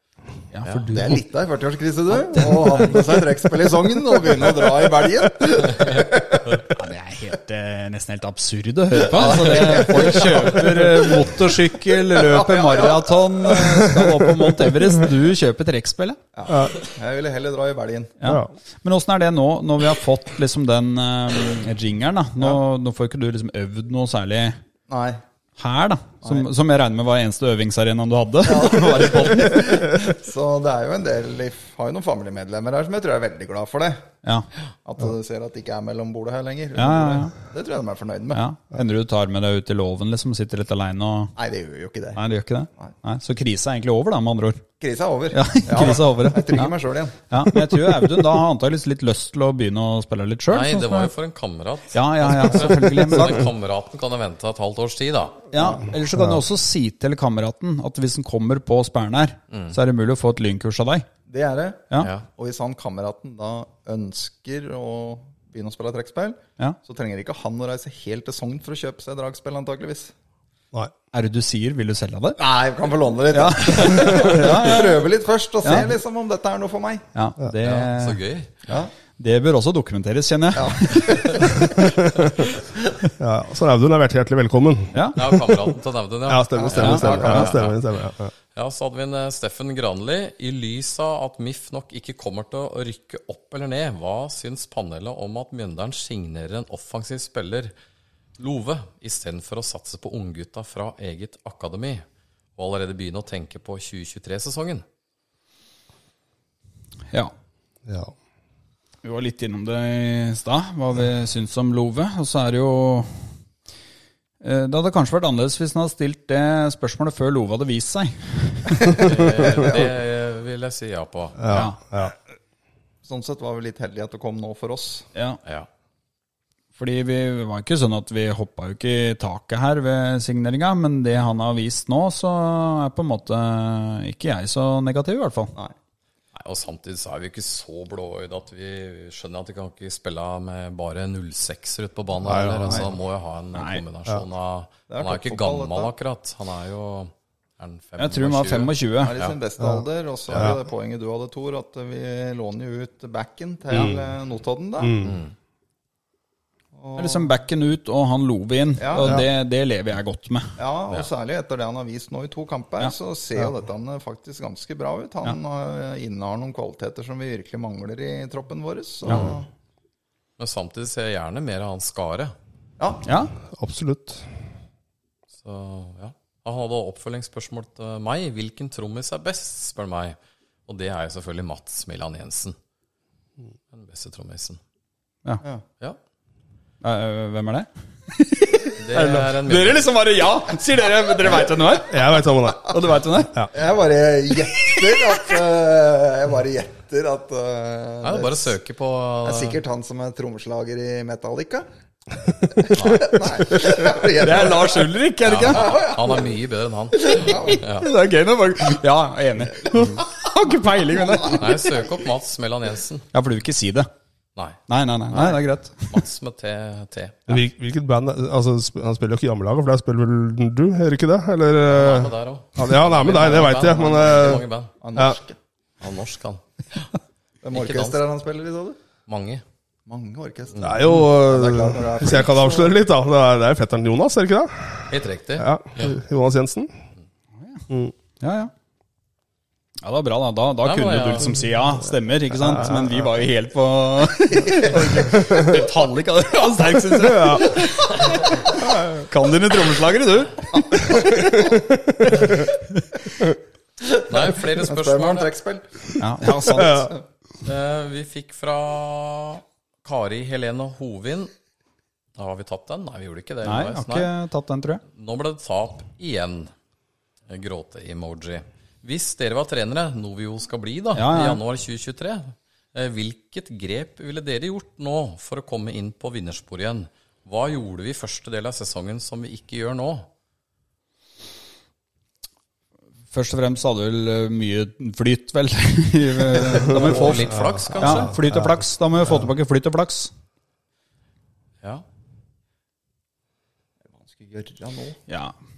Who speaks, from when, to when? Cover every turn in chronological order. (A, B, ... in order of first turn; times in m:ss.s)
0:00.5-0:01.2 A
0:00.6-0:00.9 B
0:00.9-0:06.7 C
0:02.1-0:03.2 A
0:06.7-0:16.2 A
0:09.0-0:13.9 C
0:16.3-0:18.2 C
0:16.5-0:16.8 D
0:18.2-0:24.6 A
0:18.2-0:18.5 D
0:24.9-0:25.2 C
0:25.6-0:30.0 A
0:26.2-0:26.5 C
0:28.4-0:34.1 C
0:34.8-0:38.4 C
0:36.7-0:37.3 A
0:38.3-0:41.3 A
0:41.4-0:42.2 C
0:42.1-0:44.6 A
0:44.8-0:47.6 C
0:45.3-0:46.8 A
0:47.3-0:51.1 A
0:50.5-0:55.4 B
0:51.9-0:53.5 A
0:55.5-1:01.0 A
0:56.1-0:56.4 D
0:59.5-0:59.8 B
1:01.3-1:10.1 C
1:02.0-1:02.2 B
1:11.1-1:12.4 A
1:12.4-1:17.0 C
1:13.3-1:15.0 A
1:15.6-1:15.9 A
1:17.1-1:21.7 A
1:17.6-1:18.5 B
1:20.5-1:21.8 C
1:21.1-1:21.5 B
1:23.2-1:25.6 D
1:24.9-1:25.2 A
1:25.1-1:28.0 B
1:26.3-1:28.3 D
1:26.6-1:27.4 C
1:26.7-1:27.6 A
1:28.5-1:37.7 B
1:38.4-1:42.0 B
1:42.6-1:44.8 B
1:47.9-1:48.1 D
1:49.0-1:53.3 A
1:54.4-1:59.2 A
1:59.0-2:01.7 B
2:01.4-2:02.1 D
2:01.5-2:01.8 A
2:03.0-2:05.1 C
2:05.1-2:05.4 A
2:06.8-2:15.5 A
2:16.3-2:29.4 B
2:22.2-2:22.9 D
2:23.5-2:23.8 A
2:24.9-2:25.9 C
2:28.0-2:29.2 A
2:29.0-2:35.0 C
2:29.6-2:30.6 D
2:33.7-2:34.1 D
2:34.8-2:35.2 D
2:35.0-2:35.3 B
2:36.7-2:37.3 C
2:37.0-2:40.6 A
2:38.8-2:39.2 C
2:40.6-2:49.5 C
2:50.4-2:52.3 B
2:52.8-2:53.0 C
2:53.0-2:53.3 A
2:53.5-2:54.2 D
2:55.4-3:02.6 B
3:03.7-3:04.6 B
3:06.8-3:13.4 A
3:08.8-3:09.9 B
3:09.0-3:09.3 D
3:11.9-3:12.8 D
3:13.5-3:18.5 C
3:14.4-3:15.2 A
3:18.0-3:19.6 B
3:19.2-3:21.7 C
3:22.5-3:24.9 C
3:22.7-3:23.2 B
3:24.0-3:25.8 A
3:25.2-3:27.9 B
3:25.4-3:26.3 C
3:27.0-3:27.6 C
3:27.2-3:31.7 A
3:31.3-3:33.0 B
3:33.1-3:33.9 A
3:34.4-3:35.4 B
3:34.7-3:36.0 A
3:35.9-3:37.4 B
3:37.3-3:44.4 D
3:41.7-3:44.7 B
3:43.4-3:44.2 C
3:44.8-3:45.4 C
3:45.8-3:46.8 B
3:47.4-3:48.8 C
3:47.5-3:48.0 B
3:49.1-3:49.4 B
3:49.9-3:52.8 C
3:50.5-3:50.8 B
3:50.6-3:56.7 D
3:54.9-3:56.0 B
3:57.4-3:57.6 A
3:58.2-3:58.5 A
3:59.8-4:11.5 A
4:00.6-4:01.4 B
4:02.3-4:03.0 D
4:05.1-4:05.6 D
4:06.9-4:07.6 D
4:11.4-4:12.2 D
4:13.8-4:17.0 C
4:14.1-4:15.3 B
4:16.0-4:16.9 A
4:16.6-4:16.9 D
4:17.4-4:21.3 B
4:22.2-4:24.1 B
4:23.4-4:24.8 A
4:24.9-4:26.5 B
4:27.3-4:40.1 B
4:30.9-4:31.4 A
4:43.1-4:50.1 A
4:46.6-4:48.2 B
4:47.3-4:48.6 D
4:54.0-4:55.0 C
4:55.1-4:55.3 A